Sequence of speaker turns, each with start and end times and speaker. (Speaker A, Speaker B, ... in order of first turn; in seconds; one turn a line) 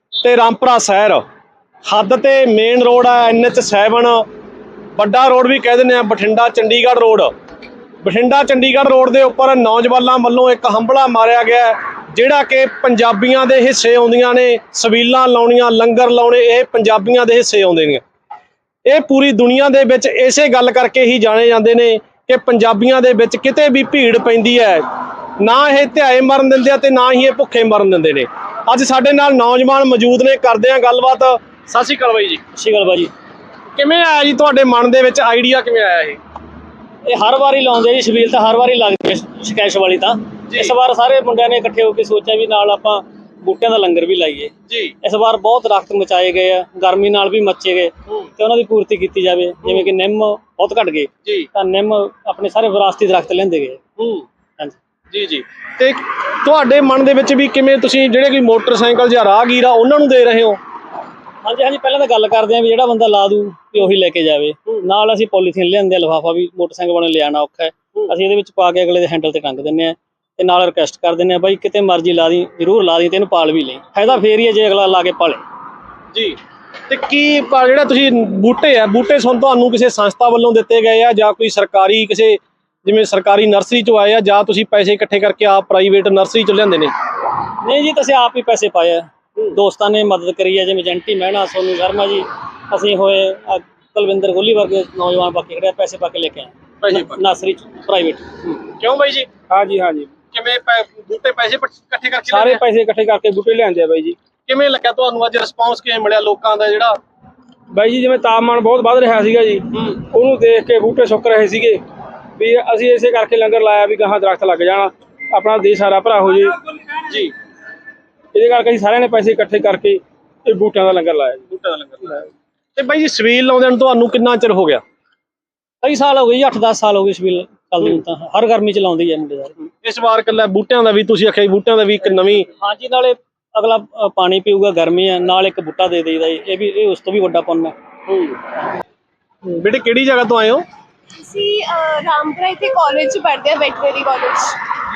Speaker A: 0.2-1.2
Speaker A: 1.9-4.2
Speaker A: 5.0-7.3
Speaker A: 8.0-18.0
Speaker A: 18.9-24.9
Speaker A: 25.4-32.4
Speaker B: 32.5-33.1
Speaker A: 33.8-36.2
Speaker B: 37.0-53.8
Speaker A: 40.5-40.7
Speaker A: 44.7-45.0
Speaker A: 54.0-54.2
Speaker A: 55.1-60.6
Speaker B: 61.4-75.4
Speaker A: 76.1-86.9
Speaker B: 87.6-98.3
Speaker A: 96.8-97.2
Speaker A: 98.5-99.3
Speaker C: 99.5-100.1
Speaker A: 100.3-102.6
Speaker B: 102.3-102.6
Speaker C: 102.3-104.2
Speaker A: 104.5-107.0
Speaker C: 107.7-111.8
Speaker B: 109.3-110.2
Speaker A: 109.7-110.0
Speaker C: 112.4-116.6
Speaker A: 117.0-117.3
Speaker C: 118.3-121.5
Speaker A: 121.5-122.2
Speaker A: 122.8-124.8
Speaker B: 125.8-129.6
Speaker A: 129.8-132.5
Speaker B: 132.5-137.7
Speaker A: 138.1-138.4
Speaker A: 139.4-140.6
Speaker D: 141.2-144.6